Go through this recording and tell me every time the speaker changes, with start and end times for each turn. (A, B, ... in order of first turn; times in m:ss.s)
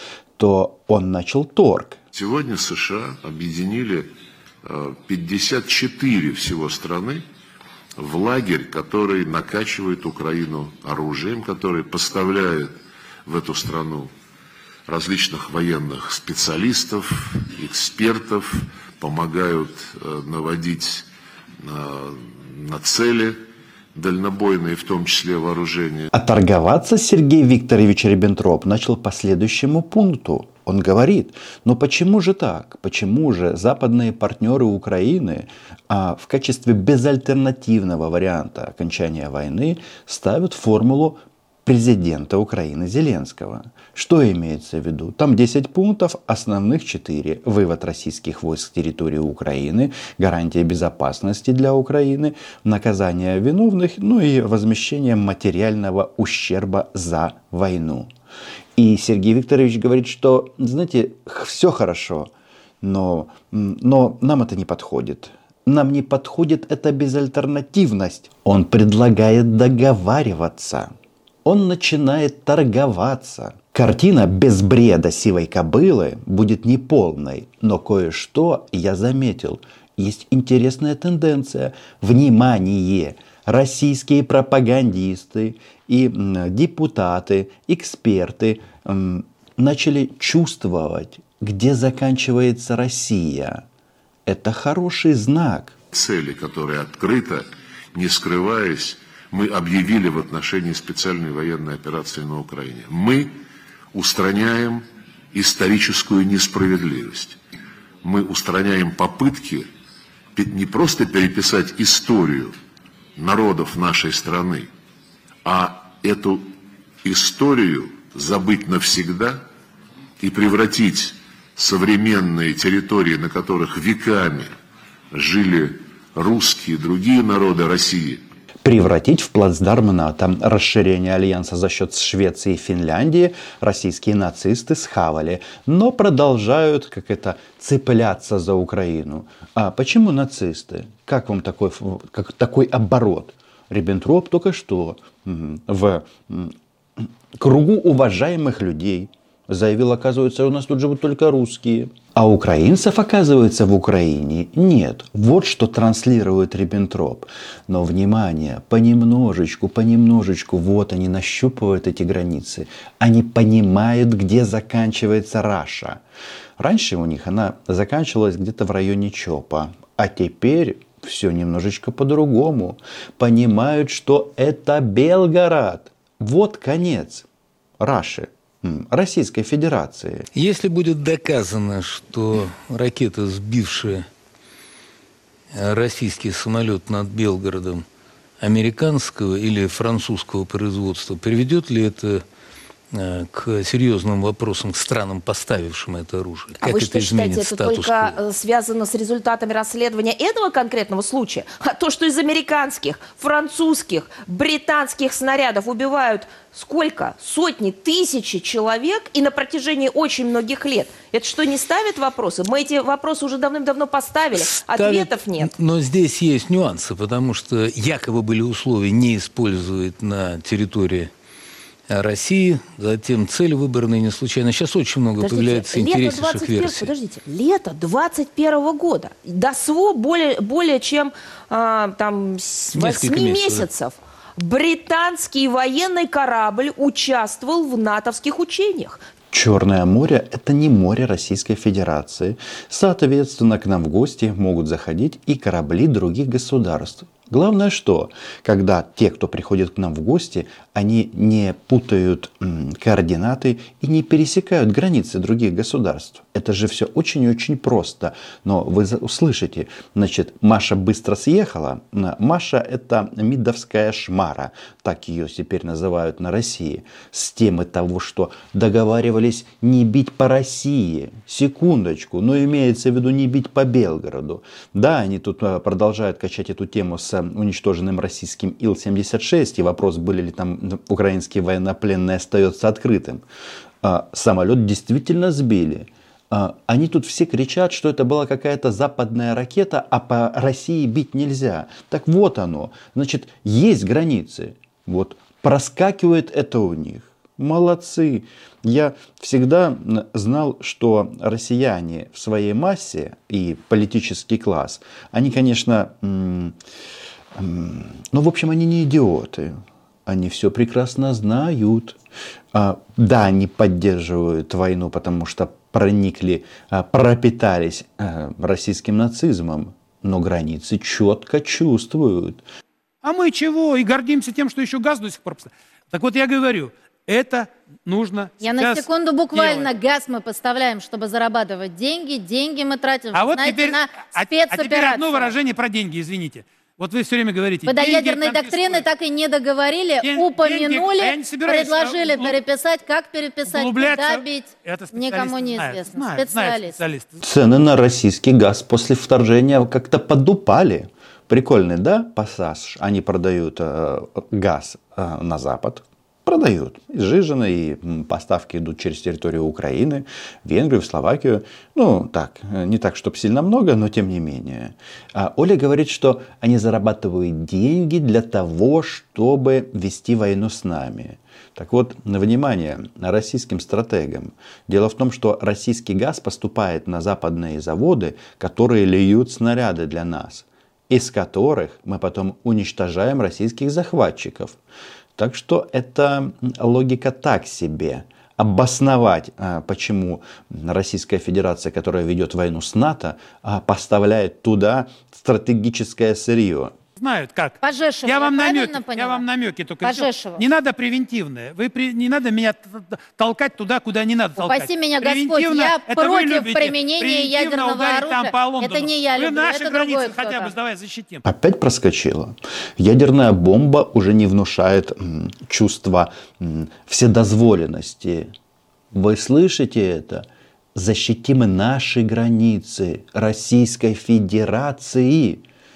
0:00.4-0:02.0 A
0:02.1-0:04.1 B
0:04.6-0:07.3 B
0:08.0-0:12.8 B
0:13.3-0:14.1 B
0:14.9-0:21.1 B
0:21.6-0:23.4 B
0:23.9-0:26.1 B
0:26.1-0:58.1 A
0:58.8-1:02.3 A
1:02.8-1:10.9 A
1:11.4-1:33.6 A
1:34.3-1:35.8 A
1:35.9-1:43.4 B
1:43.9-1:47.4 B
1:48.0-1:49.7 B
1:50.4-1:52.6 B
1:53.2-1:54.7 B
1:55.4-1:56.5 B
1:57.0-1:59.4 B
2:00.2-2:04.5 B
2:05.1-2:08.2 B
2:08.6-2:46.0 A
2:46.6-2:57.2 A
2:57.8-3:00.3 A
3:00.3-3:04.1 C
3:05.5-3:07.8 C
3:08.4-3:12.2 C
3:12.9-3:18.2 C
3:16.6-3:35.5 D
3:34.4-3:41.1 C
3:41.9-3:46.9 C
3:45.2-3:59.0 D
3:52.7-3:53.7 C
3:59.3-4:43.2 A
4:43.8-5:06.6 A
5:07.4-5:12.0 A
5:12.5-5:22.4 A
5:23.0-5:29.7 E
5:28.4-5:35.3 F
5:33.1-5:38.8 E
5:37.7-5:46.8 F
5:40.0-5:42.4 E
5:43.4-5:47.2 E
5:47.2-6:24.6 A
6:25.2-6:36.8 A
6:37.0-6:51.2 E
6:37.6-6:39.2 F
6:39.8-6:40.4 F
6:44.4-6:50.5 F
6:51.2-6:58.3 A
6:58.9-7:05.4 A